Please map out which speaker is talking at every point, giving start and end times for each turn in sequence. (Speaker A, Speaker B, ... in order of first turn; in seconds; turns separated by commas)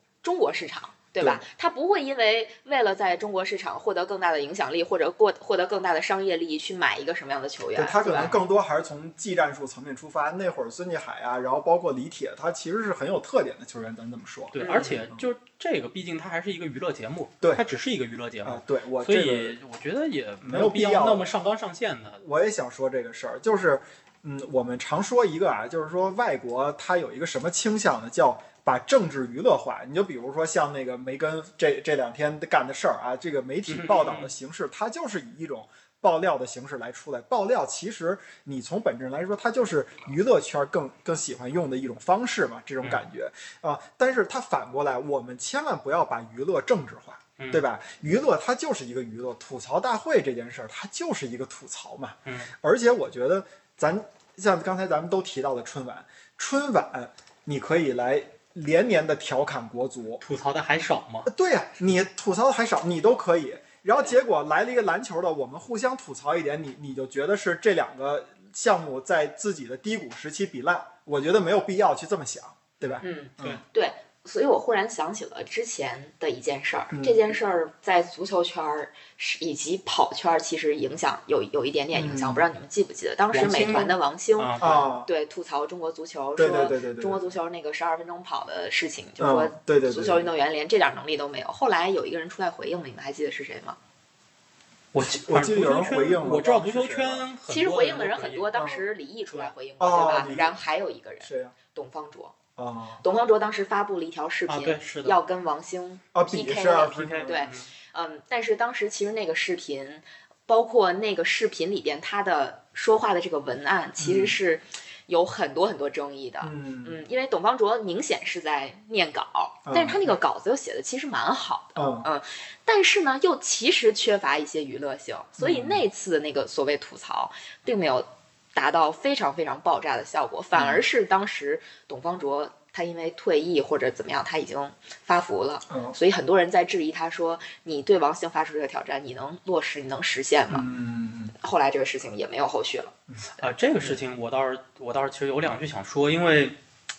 Speaker A: 0.2-8.3, Speaker B: 1.2-1.4, Speaker B: 7.8-14.6, Speaker C: 14.5-22.2, Speaker A: 14.6-15.0, Speaker B: 18.4-19.6, Speaker B: 20.4-21.3, Speaker B: 22.2-60.2, Speaker C: 33.7-34.3, Speaker C: 47.4-47.6, Speaker C: 52.3-52.5, Speaker C: 60.2-61.3, Speaker B: 61.3-73.6, Speaker A: 73.0-93.8, Speaker B: 76.9-77.2, Speaker B: 81.9-82.5, Speaker C: 83.3-84.8, Speaker B: 84.6-85.1, Speaker B: 86.4-87.3, Speaker B: 89.2-90.3, Speaker C: 94.9-98.5, Speaker B: 95.0-97.3, Speaker A: 97.5-102.4, Speaker B: 98.5-98.8, Speaker B: 99.8-100.6, Speaker B: 101.2-101.5, Speaker B: 102.6-103.0, Speaker A: 103.0-140.7, Speaker C: 104.5-105.2, Speaker B: 106.1-107.5, Speaker C: 106.9-107.7, Speaker B: 114.0-114.4, Speaker B: 116.4-117.0, Speaker B: 119.7-120.1, Speaker B: 121.8-122.1, Speaker B: 125.4-125.8, Speaker B: 130.6-130.8, Speaker B: 135.7-135.9, Speaker B: 140.5-141.3, Speaker A: 141.4-142.9, Speaker C: 143.4-146.6